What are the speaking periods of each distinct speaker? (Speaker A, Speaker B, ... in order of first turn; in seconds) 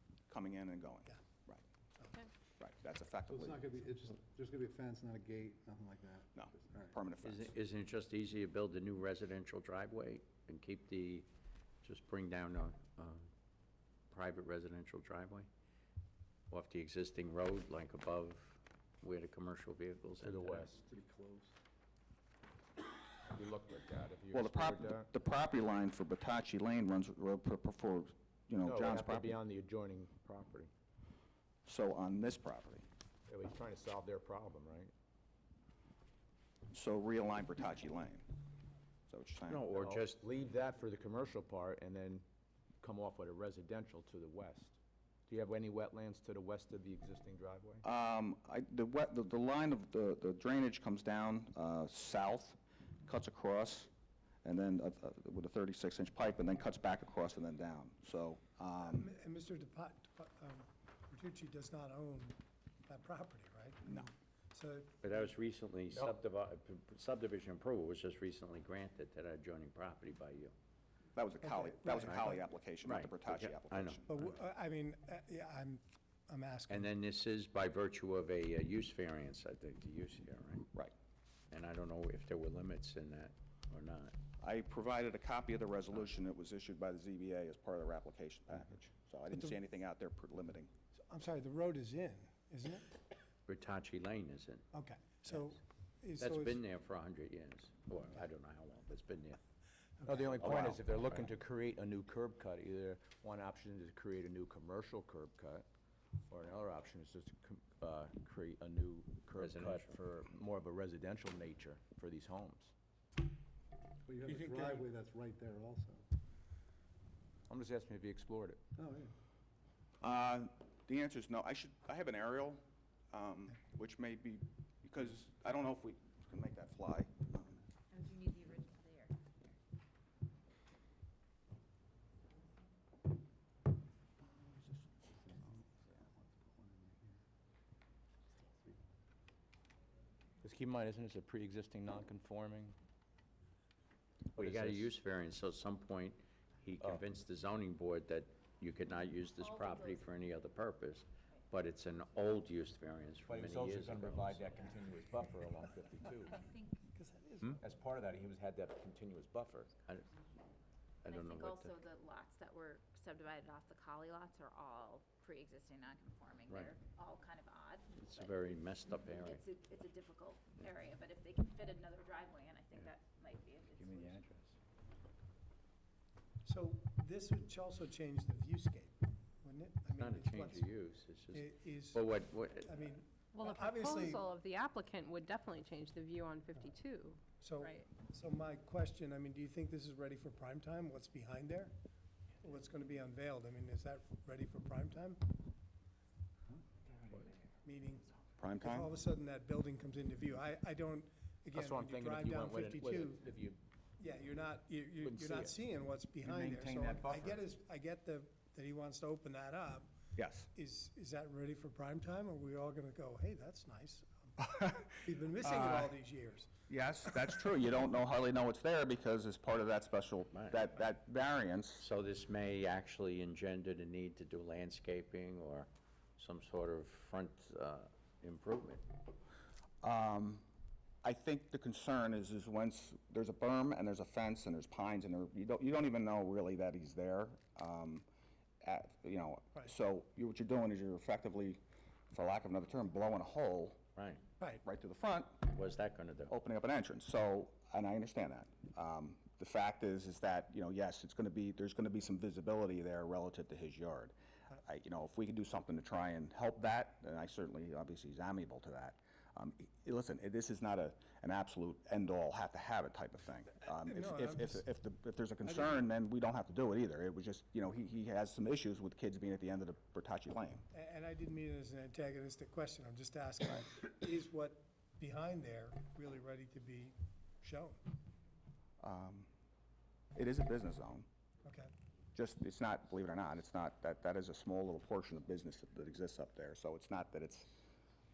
Speaker A: 0.3-1.6, 2.6-3.7, 6.3-7.5, 24.3-29.4, 31.7-32.9, 36.7-38.3, 39.1-39.7, 47.8-53.9, 54.4-59.1, 71.2-74.2, 84.4-90.7, 120.0-127.6, 198.4-198.9, 210.2-210.5, 214.4-215.9, 216.7-221.8, 229.8-230.4, 231.0-238.1, 238.6-241.6, 242.1-243.8, 244.6-245.5, 246.3-270.6, 278.8-279.3, 280.1-281.1, 282.1-287.6
Speaker B: 3.3-7.0, 20.9-21.5, 114.0-116.0, 118.8-119.1
Speaker C: 7.2-11.3, 11.8-13.3, 14.1-15.5, 16.5-20.7, 39.5-40.2, 65.0-70.5, 72.1-72.3, 72.8-74.2, 76.7-80.7, 81.5-84.1, 93.5-94.6, 96.2-99.4, 100.4-101.3, 109.4-110.0, 144.3-154.4, 161.0-161.8, 166.5-166.7, 167.9-169.4, 173.8-174.5, 180.0-183.0, 220.3-220.7, 221.8-228.8, 244.0-244.2, 245.4-246.3
Speaker D: 20.2-20.9, 23.3-25.1, 28.6-30.7, 33.3-34.9, 39.8-42.2, 42.8-47.8, 65.9-66.2, 100.0-105.7, 106.3-112.7, 117.5-118.6, 140.4-142.8, 144.4-144.9, 153.3-156.4, 157.6-159.7, 201.5-203.6, 205.0-205.6, 206.2-207.4
Speaker E: 58.8-65.1, 71.4-72.4, 74.1-76.9, 91.1-93.0, 94.7-96.6, 100.0-100.4, 114.2-114.9, 156.9-157.6, 176.4-180.7, 181.3-182.1, 182.7-184.2, 187.4-191.7, 192.4-195.3, 197.6-198.1, 198.6-203.2, 204.0-209.9, 210.5-214.3, 214.9-216.5, 263.8-264.6, 270.7-277.8, 281.4-281.7
Speaker F: 127.9-129.6, 149.4-150.2, 156.3-156.8, 161.1-174.2
Speaker G: 183.3-187.8